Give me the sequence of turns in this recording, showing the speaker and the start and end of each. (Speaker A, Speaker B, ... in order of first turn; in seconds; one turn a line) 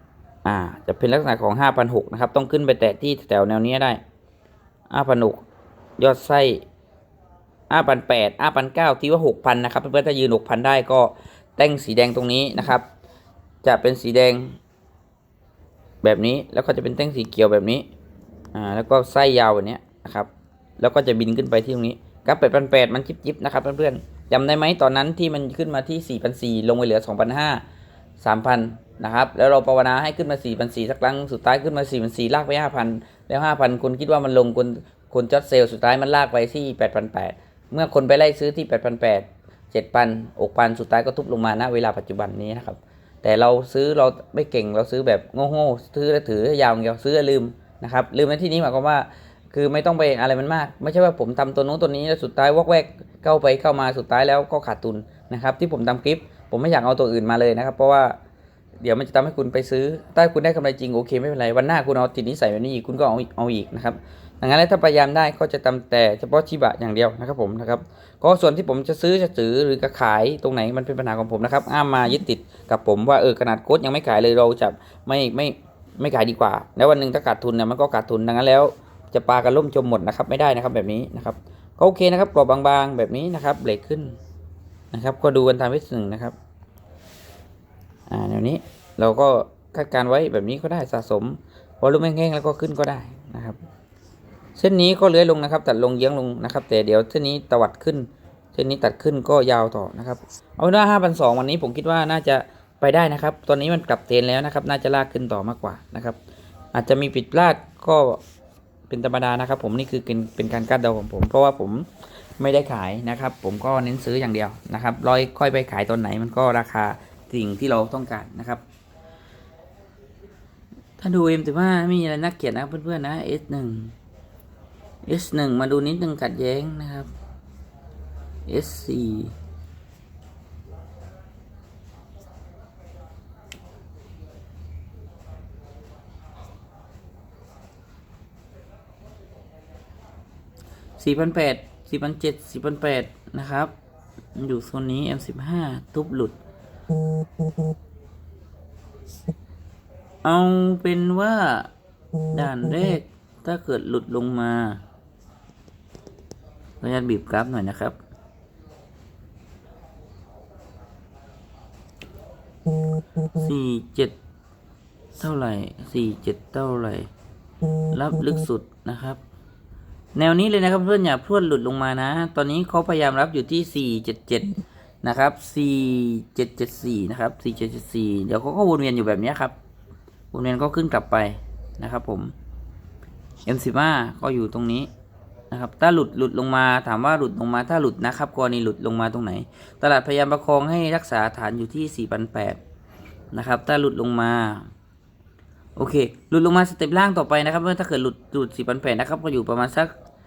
Speaker A: 0.4-4.0
Speaker A: 4.9-5.4
Speaker A: 6.0-6.6
Speaker A: 7.7-12.8
Speaker A: 13.6-14.6
Speaker A: 16.0-17.9
Speaker A: 18.5-27.6
Speaker A: 28.2-58.2
Speaker A: 58.8-84.2
Speaker A: 84.9-86.3
Speaker A: 88.1-93.6
Speaker A: 94.5-106.2
Speaker A: 106.7-108.2
Speaker A: 108.9-118.6
Speaker A: 121.0-123.9
Speaker A: 125.0-127.1
Speaker A: 128.5-129.3
Speaker A: 141.0-143.7
Speaker A: 144.3-146.3
Speaker A: 150.2-151.7
Speaker A: 152.3-154.8
Speaker A: 156.8-158.0
Speaker A: 163.3-164.1
Speaker A: 165.2-167.1
Speaker A: 167.9-169.2
Speaker A: 170.1-174.5
Speaker A: 175.0-179.5
Speaker A: 180.3-182.3
Speaker A: 183.4-184.9
Speaker A: 185.5-192.6
Speaker A: 193.3-194.7
Speaker A: 195.8-199.9